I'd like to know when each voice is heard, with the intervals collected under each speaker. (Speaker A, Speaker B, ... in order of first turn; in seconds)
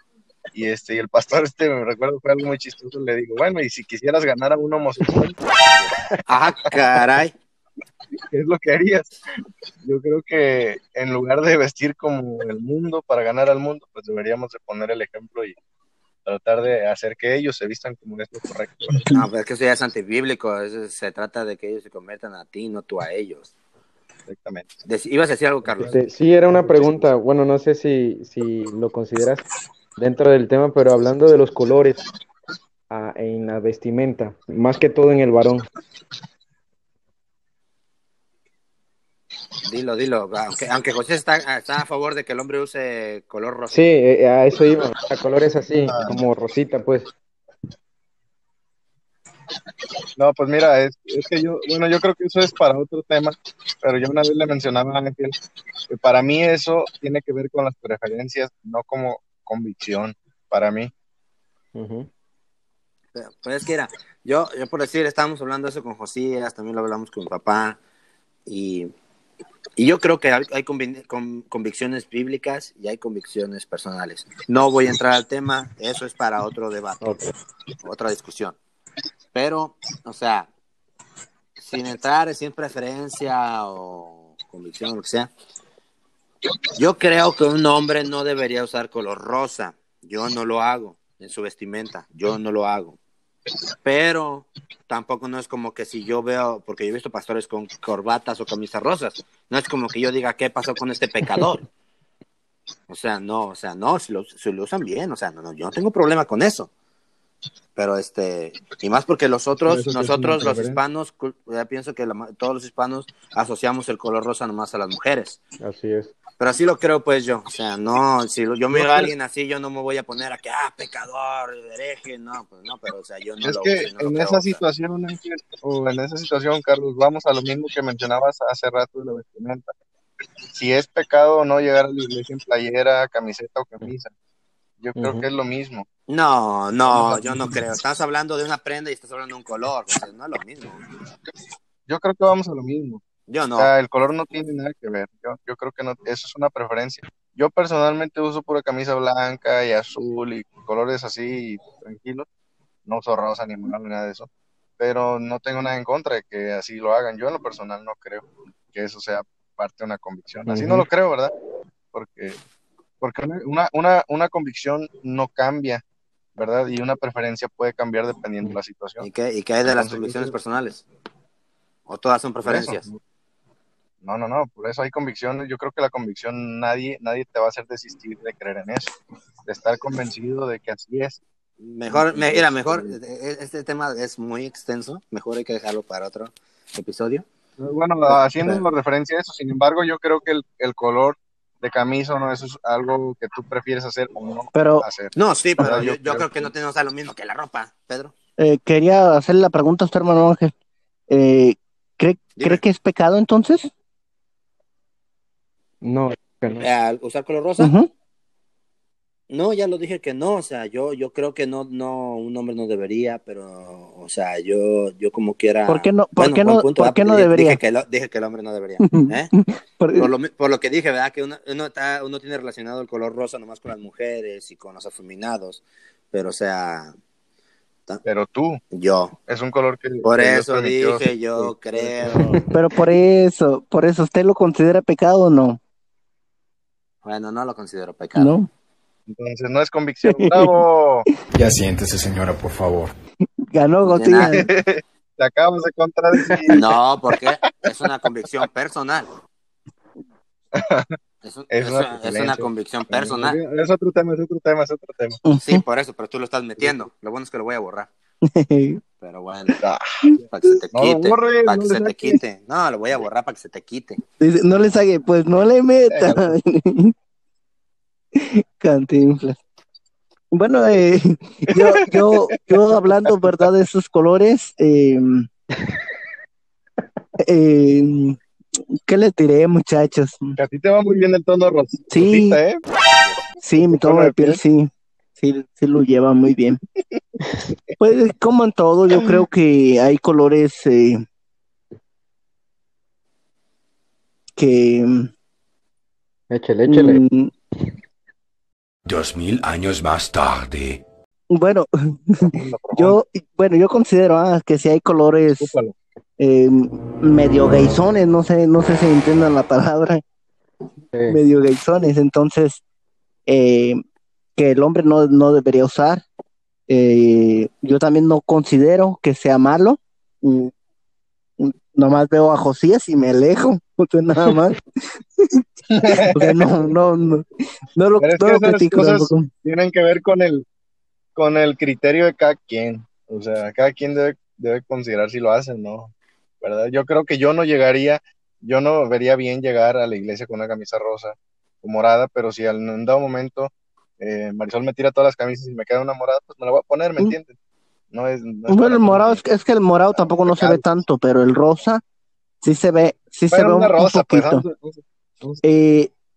Speaker A: 0.5-5.4, 8.3-9.1, 9.8-15.6, 16.2-19.0, 24.3-24.7, 25.7-26.0, 26.5-27.1, 45.9-46.2, 50.1-55.4, 55.9-60.9, 109.6-110.8, 118.7-119.1, 123.4-129.7, 130.5-134.1, 134.8-135.9, 136.9-137.5, 141.9-143.0, 143.6-152.3, 152.8-161.3, 161.9-162.4, 163.0-165.8, 166.3-169.1, 169.6-170.3, 172.4-173.0, 174.0-178.9, 179.4-181.2, 181.9-183.0, 187.6-196.5, 228.0-228.6, 229.3-232.4, 239.1-241.1, 244.2-246.6, 250.5-251.0, 251.5-255.2, 256.6-256.9, 259.6-262.2, 265.9-266.4, 272.5-273.3, 280.3-282.6, 283.6-284.4, 302.2-303.0, 305.4-305.8, 325.7-326.7, 328.0-330.4, 331.1-347.4, 347.9-349.2, 349.9-350.6, 353.3-355.4
Speaker B: 6.2-7.3, 19.1-23.5, 24.9-25.9, 39.6-43.8, 63.1-67.8, 68.5-68.9, 69.8-77.1, 77.8-78.5, 79.3-80.5, 81.6-85.3, 86.8-93.0, 93.8-101.6, 102.9-106.7, 107.8-115.4, 116.4-124.6, 136.1-140.8, 143.3-143.7, 169.0-170.8, 171.9-172.8, 181.6-187.2, 195.1-198.1, 206.6-207.7, 209.3-219.3, 219.9-226.9, 228.7-229.1, 230.0-232.4, 237.0-238.3, 243.8-244.4, 246.5-249.1, 251.2-253.4, 255.4-257.9, 259.0-259.6, 260.2-264.0
Speaker C: 18.9-19.2, 194.5-194.8, 198.4-200.5, 201.1-203.7, 207.6-207.9, 215.7-217.6, 218.8-220.1, 232.5-235.6, 238.2-238.5, 240.1-240.6, 243.5-244.5, 255.2-255.6, 258.2-258.8, 260.1-260.5, 264.2-266.9, 268.1-269.4, 270.3-275.3, 277.2-278.2, 278.9-280.4, 281.9-282.4, 283.4-286.6, 287.8-291.0, 294.4-295.1, 296.7-297.3, 301.3-305.5, 306.2-310.0, 311.1-312.6, 313.3-313.8, 314.4-316.0, 316.7-320.5, 321.4-324.6, 325.2-329.3, 348.5-351.8, 352.4-354.4, 355.4-355.9
Speaker D: 25.8-29.4, 30.0-32.0, 32.9-35.6, 43.7-47.1, 61.7-62.1, 77.0-77.3, 115.6-116.1, 134.9-135.2, 160.5-160.8, 205.8-206.7, 296.3-297.0, 310.9-311.2
Speaker E: 241.4-242.9, 298.9-300.8